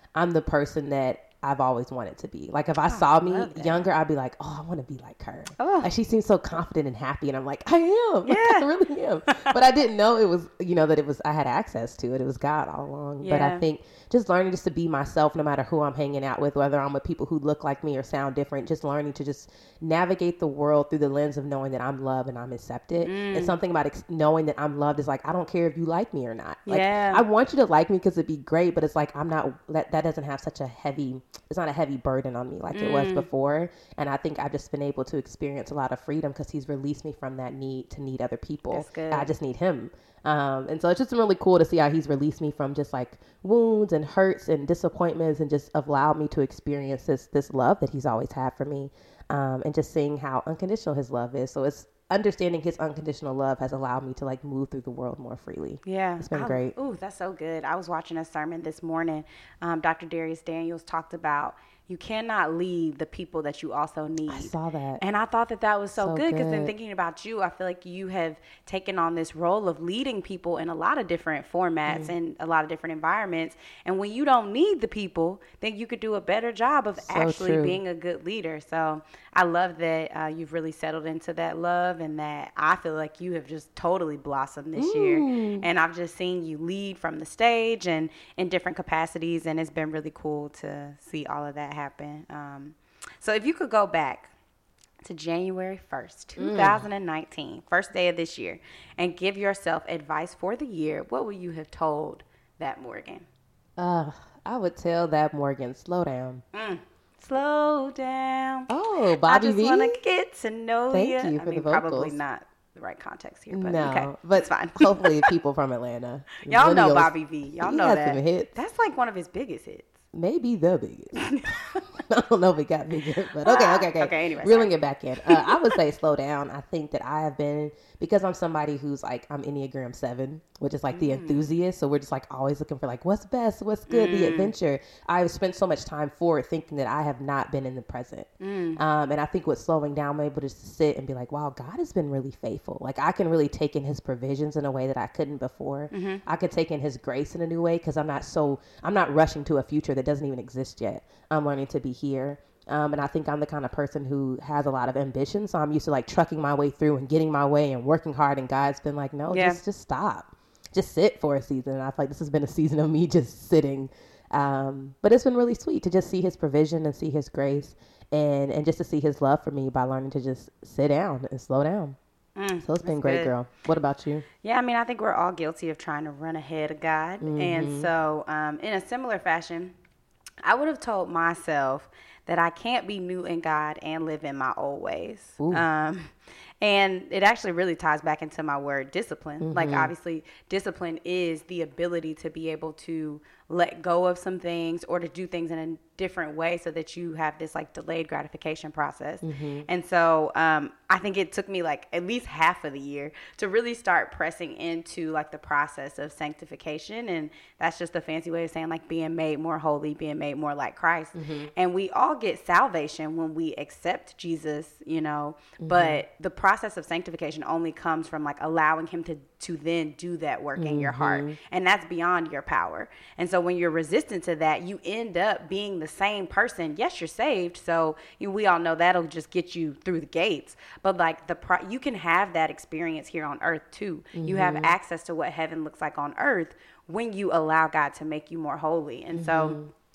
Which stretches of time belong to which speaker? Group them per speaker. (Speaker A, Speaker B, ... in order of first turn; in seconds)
Speaker A: 0.1-56.7, 64.3-65.0, 65.9-66.7, 71.9-72.1, 77.0-77.8, 84.8-85.7, 96.4-96.8, 103.8-106.4, 108.7-110.0, 110.9-112.2, 113.5-118.5, 120.1-172.0, 172.6-174.3, 177.2-177.9, 189.4-189.9, 199.2-199.7, 211.2-211.5, 215.6-216.0, 220.6-221.4, 234.2-234.8, 239.1-239.7
Speaker B: 2.9-3.9, 5.6-5.9, 8.3-8.7, 13.2-13.6, 23.0-23.6, 26.7-27.2, 32.7-33.3, 38.7-39.3, 55.9-94.3, 95.0-103.3, 106.5-108.7, 109.2-115.3, 116.5-120.0, 121.2-121.8, 123.5-125.8, 130.9-131.5, 133.9-134.5, 138.4-138.8, 145.9-146.2, 159.3-159.6, 172.4-173.3, 174.4-179.7, 180.4-239.6